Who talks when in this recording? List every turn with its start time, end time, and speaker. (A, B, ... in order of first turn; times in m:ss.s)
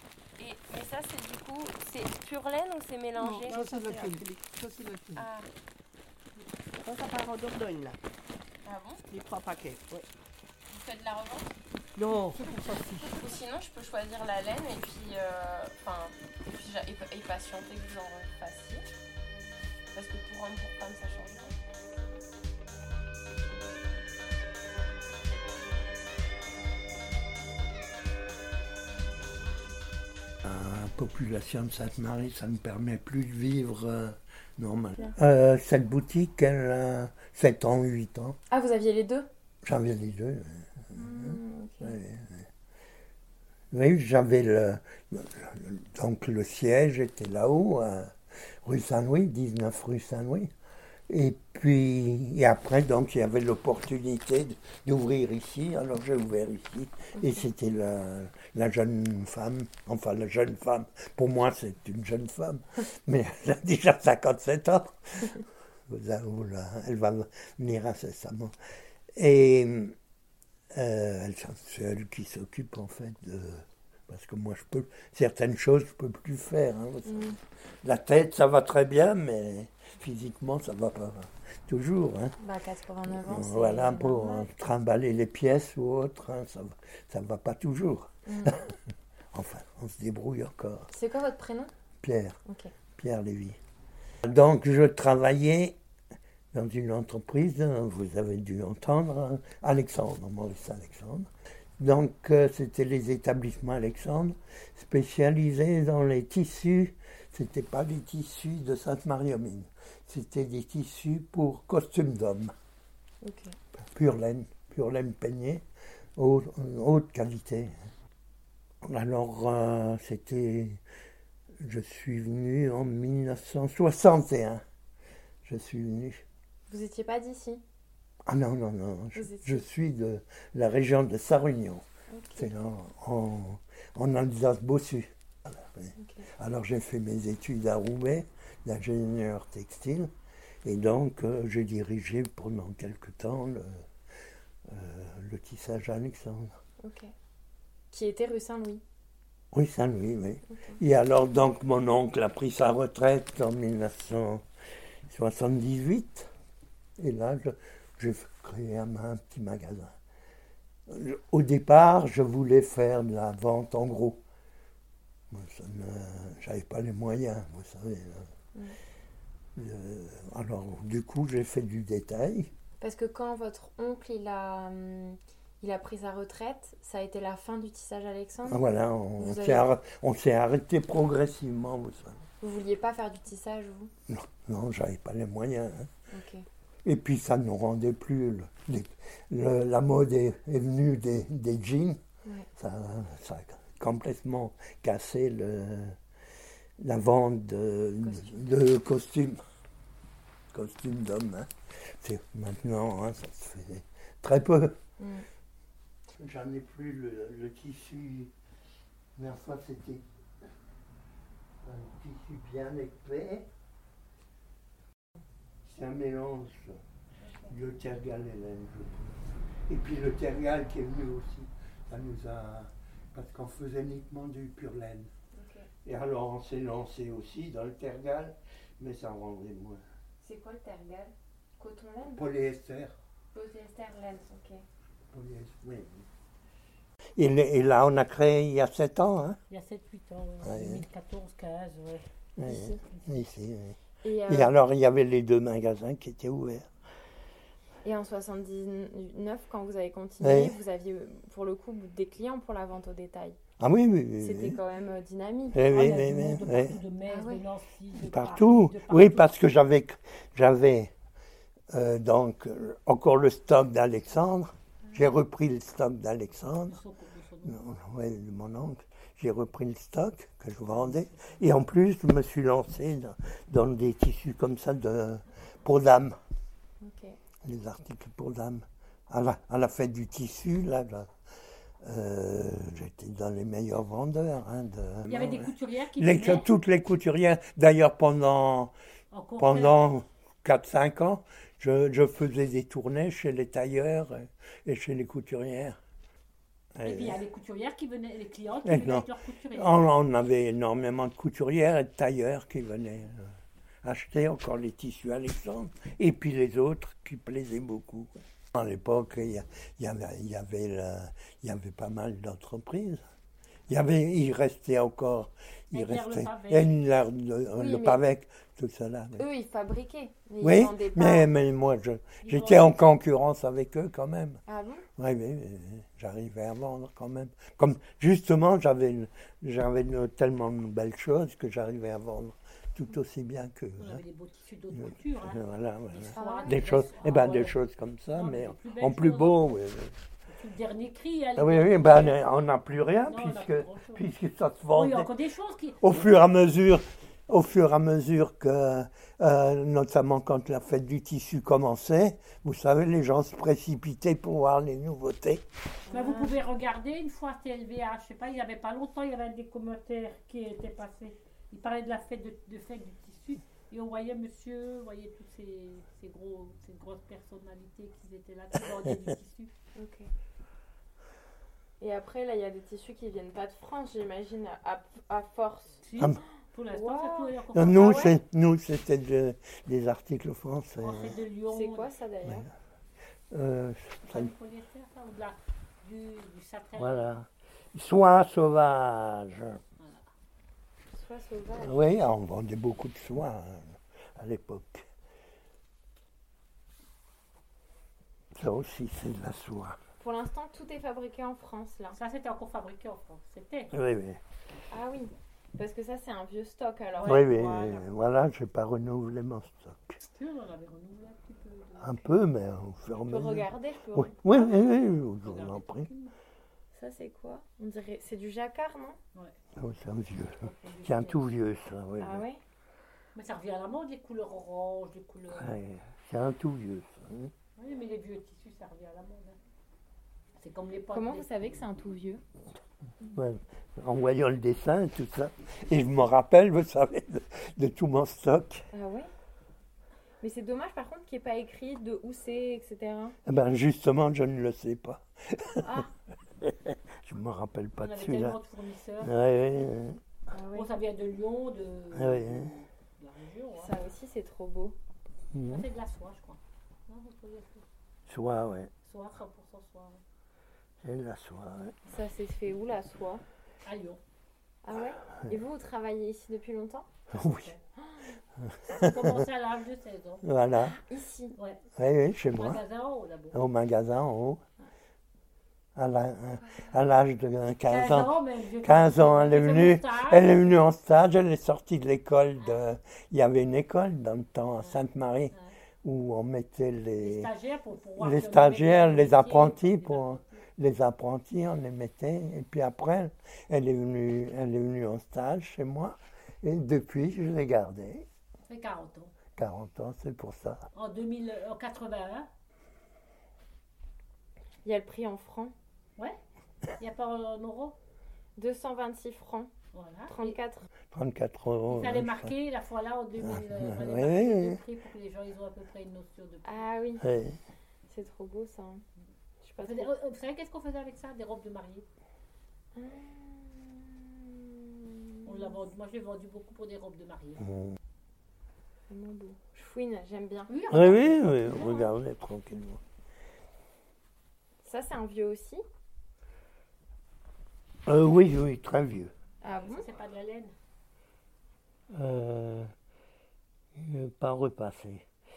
0:00.4-0:03.7 A
0:03.2-0:05.2 B
0:03.3-0:04.4 C
0:05.1-0:05.5 A
0:06.8-0:08.0 C
0:08.6-0:09.0 A
0:09.1-0:10.1 C
0:10.7-0:11.6 A
0:12.0-0:12.8 C
0:12.2-0:13.1 B
0:13.0-0:18.9 A
0:19.9-0:21.6 A
0:30.4-0:38.4 D
0:38.5-0:39.3 E
0:39.6-0:42.5 D
0:40.9-0:42.0 E
0:43.7-0:50.5 D
0:51.1-1:08.5 D
1:09.1-1:10.0 D
1:10.7-1:22.4 D
1:17.0-1:17.4 E
1:22.4-1:24.5 E
1:23.1-1:28.8 D
1:28.3-1:28.6 E
1:29.3-1:30.9 D
1:30.9-1:31.7 E
1:32.0-1:32.4 D
1:32.4-1:32.7 E
1:33.0-1:33.6 D
1:34.2-1:35.8 D
1:36.5-1:52.5 D
1:53.2-1:53.6 E
1:53.8-1:55.6 D
1:56.2-1:57.7 D
1:58.8-2:00.8 D
2:01.6-2:04.6 D
2:05.4-2:06.2 D
2:06.7-2:07.6 E
2:08.3-2:20.1 D
2:09.1-2:09.6 E
2:12.1-2:12.5 E
2:16.0-2:16.3 E
2:20.6-2:23.8 D
2:24.6-2:26.6 D
2:26.8-2:27.1 E
2:27.9-2:28.8 E
2:29.5-2:34.4 D
2:30.5-2:30.8 E
2:35.1-2:36.3 D
2:37.0-2:39.9 D
2:40.9-2:44.2 D
2:45.3-2:48.3 D
2:49.5-2:52.5 D
2:52.8-2:58.6 E
2:58.5-3:02.2 D
2:59.2-2:59.6 E
3:02.4-3:03.9 E
3:04.1-3:05.9 D
3:06.1-3:06.4 E
3:06.8-3:12.0 D
3:12.6-3:16.0 D
3:16.8-3:19.4 D
3:18.0-3:18.3 E
3:20.5-3:24.8 D
3:25.0-3:25.2 E
3:26.2-3:28.3 D
3:29.2-3:30.4 D
3:31.6-3:33.5 D
3:35.6-3:36.8 D
3:37.5-3:45.1 D
3:45.3-3:45.7 E
3:45.8-3:49.8 D
3:50.2-3:52.2 E
3:52.1-3:53.0 D
3:53.3-3:54.6 E
3:55.1-3:56.1 D
3:57.2-3:59.4 D
3:59.5-4:02.0 F
4:00.4-4:00.8 D
4:02.4-4:06.7 D
4:02.4-4:02.8 E
4:04.0-4:04.5 E
4:07.8-4:13.4 E
4:10.2-4:10.6 D
4:13.6-4:14.6 D
4:14.2-4:16.0 E
4:15.5-4:16.8 D
4:15.7-4:19.3 F
4:17.1-4:17.4 E
4:18.0-4:20.9 D
4:21.7-4:26.8 D
4:26.7-4:27.6 F
4:27.4-4:36.2 D
4:30.8-4:31.4 F
4:36.8-4:37.2 E
4:37.4-4:41.1 D
4:41.8-4:48.7 D
4:45.1-4:46.5 F
4:49.1-4:49.8 F
4:49.4-4:55.8 D
4:56.8-4:57.2 D
4:56.8-4:59.8 F
4:58.6-5:03.3 D
5:03.8-5:13.0 D
5:13.7-5:19.2 D
5:15.7-5:16.7 F
5:17.6-5:18.0 E
5:19.2-5:21.3 E
5:20.4-5:24.4 D
5:22.2-5:22.8 F
5:24.5-5:24.9 E
5:25.0-5:34.0 D
5:33.8-5:35.4 F
5:34.7-5:39.9 D
5:35.9-5:37.6 F
5:36.1-5:36.7 E
5:38.1-5:39.4 F
5:40.3-5:42.3 F
5:41.4-5:45.1 D
5:43.0-5:44.0 F
5:44.7-5:46.1 F
5:45.8-5:55.4 D
5:55.9-5:56.3 E
5:55.9-6:09.5 F
6:09.8-6:10.1 E
6:11.8-6:15.8 E
6:15.8-6:18.2 F
6:16.7-6:18.1 E
6:17.5-6:21.1 D
6:20.8-6:21.9 F
6:21.5-6:22.5 E
6:23.3-6:24.3 D
6:24.0-6:27.0 F
6:26.8-6:29.6 D
6:29.8-6:30.1 F
6:30.9-6:31.7 E
6:31.6-6:34.9 D
6:38.3-6:39.8 D
6:40.0-6:42.0 E
6:41.9-6:43.7 F
6:43.7-6:44.2 D
6:44.7-6:47.2 E
6:47.0-6:47.8 F
6:47.0-6:50.0 D
6:50.0-6:52.1 F
6:51.8-6:55.9 D
6:53.0-6:54.2 E
6:54.3-6:56.1 F
6:56.7-6:59.0 E
6:59.6-7:02.2 D
7:00.4-7:01.3 F
7:02.0-7:02.4 E
7:03.1-7:05.5 F
7:05.3-7:07.3 D
7:07.6-7:09.4 F
7:10.4-7:11.3 F
7:10.9-7:12.2 E
7:13.0-7:18.6 D
7:18.7-7:19.1 E
7:20.2-7:23.2 E
7:23.2-7:25.8 D
7:25.6-7:25.9 E
7:26.4-7:28.4 D
7:27.8-7:29.1 F
7:29.0-7:30.0 D
7:30.3-7:30.7 E
7:30.5-7:33.7 F
7:31.9-7:32.6 D
7:33.6-7:34.8 E
7:35.3-7:35.6 D
7:35.5-7:37.6 F
7:38.1-7:38.7 D
7:38.8-7:40.0 F
7:40.8-7:41.8 D
7:41.9-7:43.2 E
7:43.6-7:44.0 F
7:44.6-7:46.9 E
7:47.1-7:47.5 D
7:47.3-7:47.6 F
7:47.8-7:48.2 E
7:48.4-7:49.2 D
7:48.7-7:50.2 F
7:50.2-7:50.8 D
7:50.7-7:51.3 E
7:51.8-7:52.6 D
7:52.3-7:53.4 F
7:53.3-7:54.4 D
7:55.8-8:07.3 D
7:57.7-8:00.5 F
8:07.0-8:10.4 F
8:08.0-8:18.1 D
8:18.5-8:19.2 F
8:19.4-8:20.6 D
8:20.7-8:22.3 F
8:24.6-8:25.5 E
8:26.8-8:27.8 F
8:28.4-8:29.5 E
8:29.7-8:30.4 F
8:30.1-8:30.7 E
8:30.9-8:32.3 D
8:31.7-8:36.7 F
8:33.2-8:34.6 D
8:36.4-8:37.0 E
8:37.0-8:37.4 D
8:37.9-8:38.8 E
8:39.4-8:39.9 E
8:39.6-8:41.8 F
8:42.7-8:45.5 E
8:45.2-8:47.4 F
8:47.4-8:47.8 D
8:48.9-8:51.6 E
8:50.5-8:51.9 F
8:50.7-8:52.8 D
8:54.6-8:55.6 E
8:57.8-8:59.1 D
8:59.4-8:59.9 E
8:59.6-9:00.5 F
9:01.9-9:02.7 D
9:03.7-9:05.1 D